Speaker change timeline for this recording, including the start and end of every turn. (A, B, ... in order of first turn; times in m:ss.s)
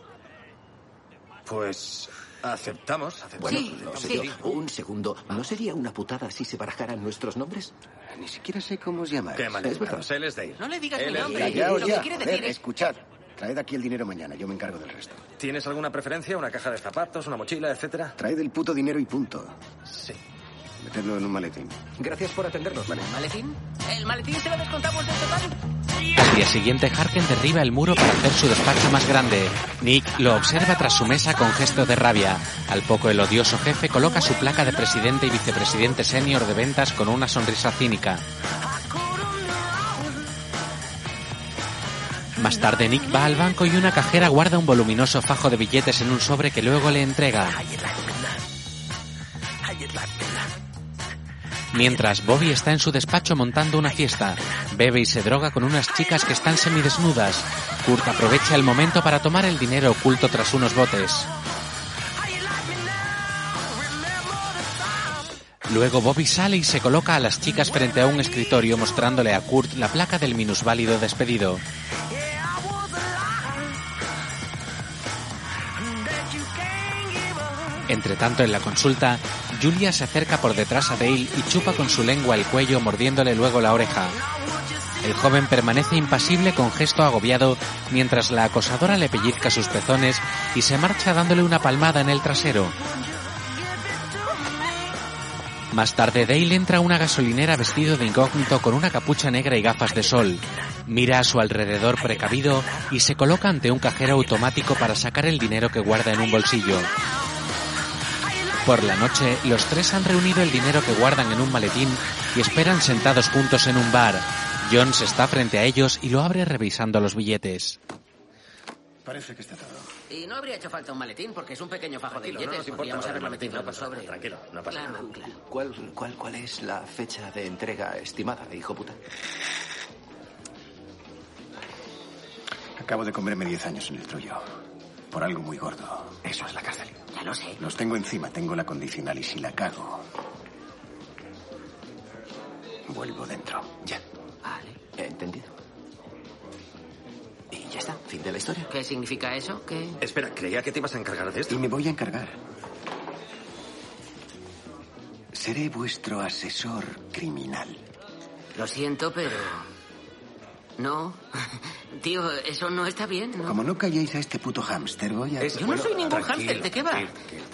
0:01.4-0:04.4 A
0:03.4-0:07.7 B
0:03.4-0:04.2 C
0:08.1-0:09.7 D
0:09.3-0:12.0 A
0:09.6-0:10.0 B
0:10.6-0:12.6 C
0:11.3-0:15.2 D
0:15.4-0:18.2 A
0:18.2-0:19.6 D
0:19.8-0:20.2 A
0:20.8-0:21.8 D
0:22.0-0:23.0 B
0:22.9-0:25.6 C
0:26.2-0:38.2 E
0:42.4-0:47.6 E
0:51.7-1:01.3 E
1:05.7-1:11.6 E
1:17.9-1:24.2 E
1:25.0-1:32.8 E
1:35.7-1:46.9 E
1:48.6-1:57.8 E
1:59.0-1:59.9 D
2:00.1-2:05.4 C
2:02.1-2:05.1 A
2:05.4-2:09.0 B
2:12.8-2:14.4 D
2:15.1-2:16.4 D
2:16.4-2:16.8 A
2:17.1-2:17.6 C
2:17.6-2:20.0 D
2:22.9-2:23.7 D
2:24.4-2:24.8 C
2:25.0-2:25.5 B
2:27.5-2:28.7 B
2:28.7-2:30.0 C
2:30.0-2:31.7 A
2:31.5-2:32.4 D
2:35.3-2:37.8 D
2:38.5-2:39.7 C
2:40.8-2:43.6 C
2:43.4-2:45.9 D
2:45.4-2:47.1 A
2:45.5-2:47.1 C